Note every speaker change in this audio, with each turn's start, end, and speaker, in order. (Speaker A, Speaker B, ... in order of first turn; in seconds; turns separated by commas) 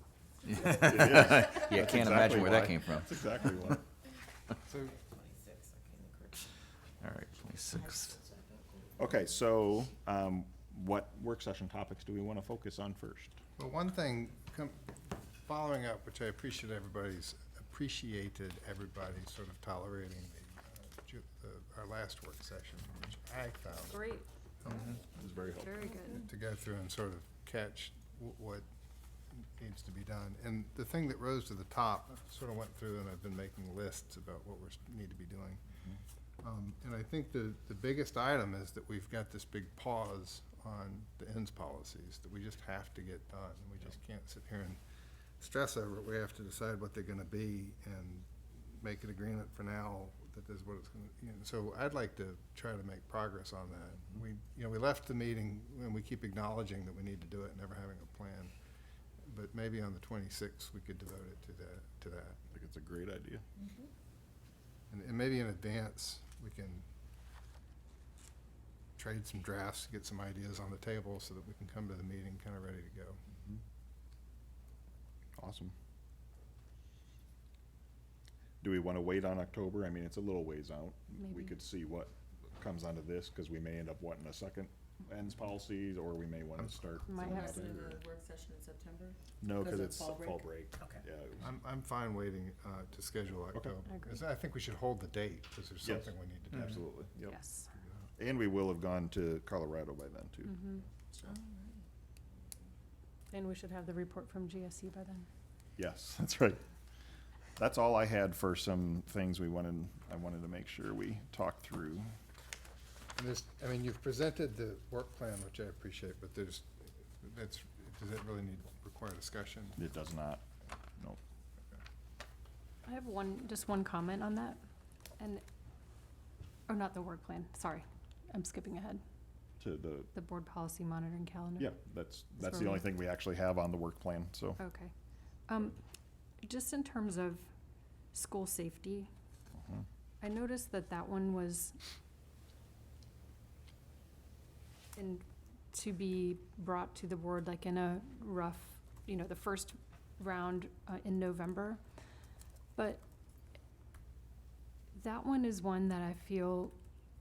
Speaker A: 0.6-3.8, Speaker B: 0.7-3.8, Speaker C: 4.7-6.5, Speaker A: 7.0-8.1, Speaker C: 7.7-8.9, Speaker B: 9.0-13.4, Speaker D: 13.6-14.8, Speaker D: 15.4-25.0, Speaker E: 23.9-24.2, Speaker B: 24.8-25.9, Speaker E: 25.5-26.2, Speaker D: 26.1-28.6, Speaker D: 29.3-35.6, Speaker D: 36.4-44.8, Speaker D: 45.4-58.5, Speaker D: 59.2-62.4, Speaker B: 62.5-63.4, Speaker C: 63.6-63.9, Speaker D: 64.9-66.8, Speaker D: 69.0-73.2, Speaker B: 75.4-75.7, Speaker B: 78.6-88.0, Speaker E: 81.2-81.5, Speaker E: 87.1-87.8, Speaker C: 87.2-90.6, Speaker B: 89.4-91.5, Speaker D: 91.4-96.9, Speaker B: 95.8-97.4, Speaker E: 97.2-97.7, Speaker B: 98.2-101.3, Speaker E: 100.4-100.8, Speaker C: 101.2-101.8, Speaker C: 102.3-102.6, Speaker E: 103.3-105.3, Speaker B: 105.8-106.6, Speaker B: 107.6-112.1, Speaker D: 113.2-119.8, Speaker B: 119.8-120.4, Speaker E: 122.9-124.6, Speaker E: 126.7-129.0, Speaker B: 129.6-130.1, Speaker E: 130.1-131.7, Speaker B: 131.6-134.6, Speaker E: 132.4-132.8, Speaker E: 134.6-134.9, Speaker E: 135.5-135.8, Speaker E: 136.4-137.5, Speaker E: 138.1-139.1, Speaker E: 140.2-141.8, Speaker E: 144.9-151.8, Speaker E: 152.7-153.0, Speaker E: 154.9-156.7